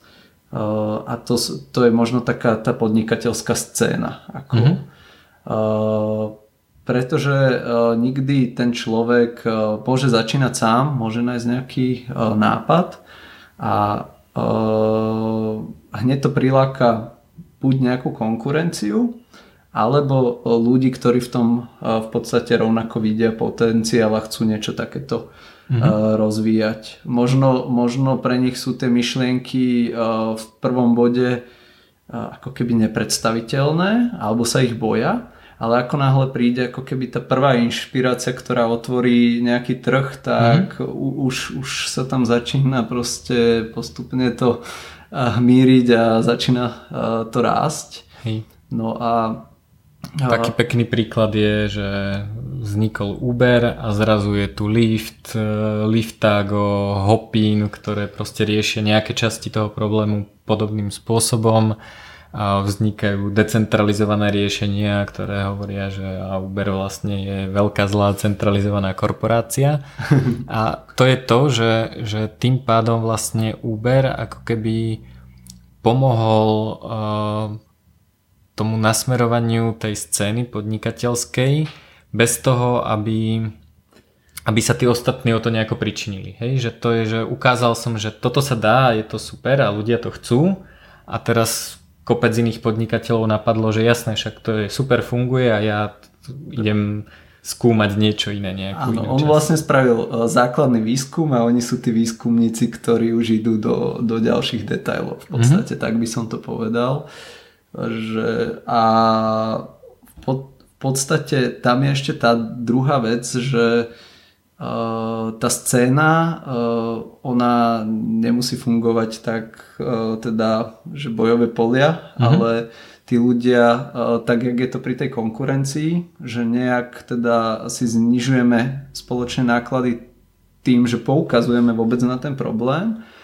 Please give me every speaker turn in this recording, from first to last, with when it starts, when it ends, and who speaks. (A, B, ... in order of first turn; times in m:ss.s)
0:00.5-0:04.8 A
0:04.5-0:04.8 B
0:05.4-0:13.0 A
0:13.6-0:19.2 A
0:19.7-0:31.4 A
0:25.7-0:25.9 B
0:32.1-0:48.1 A
0:40.4-0:40.7 B
0:48.7-0:49.4 A
0:50.2-0:50.5 A
0:50.2-1:01.8 B
1:02.3-1:09.8 B
1:10.1-1:10.4 A
1:10.4-1:15.0 B
1:15.8-1:17.6 B
1:18.6-1:23.6 B
1:24.5-1:39.4 B
1:38.7-1:47.1 A
1:45.3-1:45.6 B
1:47.7-1:49.7 A
1:50.2-1:53.9 A
1:54.6-2:10.1 A
2:10.6-2:13.0 A